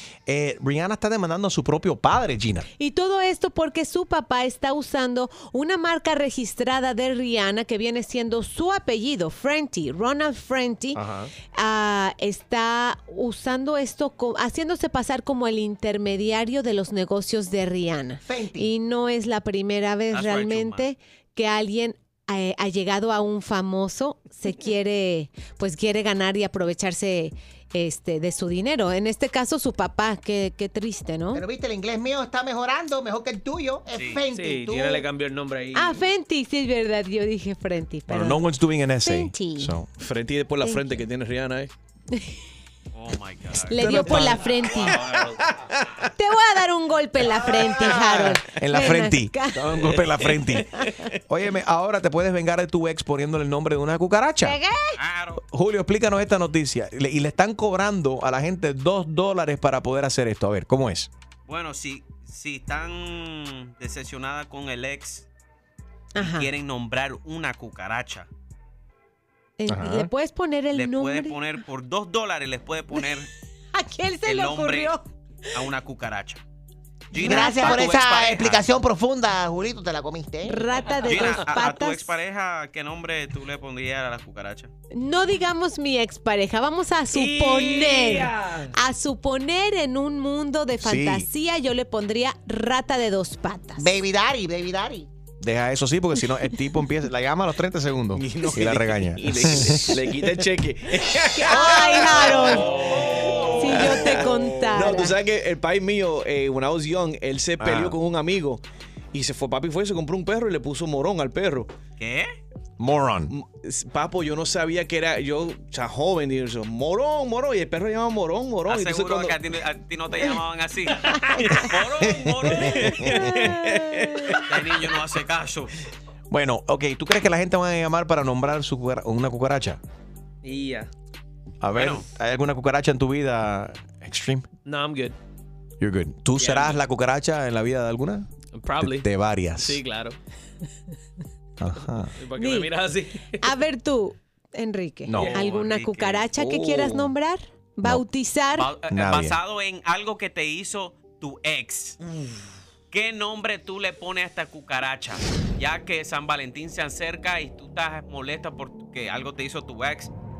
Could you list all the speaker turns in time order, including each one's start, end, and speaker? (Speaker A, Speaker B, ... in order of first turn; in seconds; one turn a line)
Speaker A: 0.3-2.7
Speaker B: 2.8-11.0
Speaker A: 10.9-11.3
Speaker B: 11.5-31.4
Speaker C: 18.2-18.7
Speaker D: 20.1-20.9
Speaker C: 31.3-35.0
Speaker D: 33.9-34.2
Speaker E: 34.3-36.0
Speaker B: 35.7-38.4
Speaker A: 38.1-39.9
Speaker B: 39.0-39.8
Speaker F: 39.9-41.7
Speaker B: 40.6-40.9
Speaker D: 42.9-44.0
Speaker B: 43.7-45.0
Speaker A: 43.8-44.4
Speaker E: 44.1-45.4
Speaker B: 46.2-49.7
Speaker A: 47.7-50.7
Speaker A: 51.3-54.5
Speaker B: 54.4-55.0
Speaker D: 55.0-55.4
Speaker A: 55.5-61.1
Speaker D: 61.5-65.2
Speaker B: 66.1-66.5
Speaker D: 66.2-68.3
Speaker B: 69.6-71.5
Speaker A: 69.7-70.1
Speaker D: 70.7-73.3
Speaker B: 73.7-75.0
Speaker D: 74.2-74.9
Speaker D: 75.5-76.4
Speaker D: 77.1-78.6
Speaker C: 77.1-80.6
Speaker B: 77.2-77.7
Speaker B: 80.5-82.1
Speaker D: 81.0-84.7
Speaker B: 84.9-93.9
Speaker E: 87.1-88.6
Speaker A: 90.8-91.3
Speaker C: 93.8-95.1
Speaker A: 95.4-100.0
Speaker F: 98.1-108.6
Speaker B: 101.3-102.9
Speaker B: 103.5-105.1
Speaker A: 107.6-108.0
Speaker F: 109.1-111.7
Speaker D: 112.0-112.4
Speaker A: 112.8-113.3
Speaker F: 113.3-119.3
Speaker D: 118.7-123.3
Speaker B: 123.2-124.3
Speaker F: 123.4-124.3
Speaker D: 124.4-125.7
Speaker A: 126.3-129.8
Speaker E: 130.4-130.9
Speaker A: 131.6-134.4
Speaker D: 131.7-132.1
Speaker E: 134.6-135.1
Speaker A: 135.8-139.8
Speaker E: 136.4-136.8
Speaker E: 138.5-140.2
Speaker A: 141.6-142.1
Speaker E: 142.1-143.4
Speaker B: 142.3-142.7
Speaker B: 143.4-148.7
Speaker A: 145.0-145.4
Speaker D: 145.2-146.3
Speaker F: 146.3-147.0
Speaker D: 148.5-152.0
Speaker A: 148.9-149.4
Speaker D: 152.9-160.1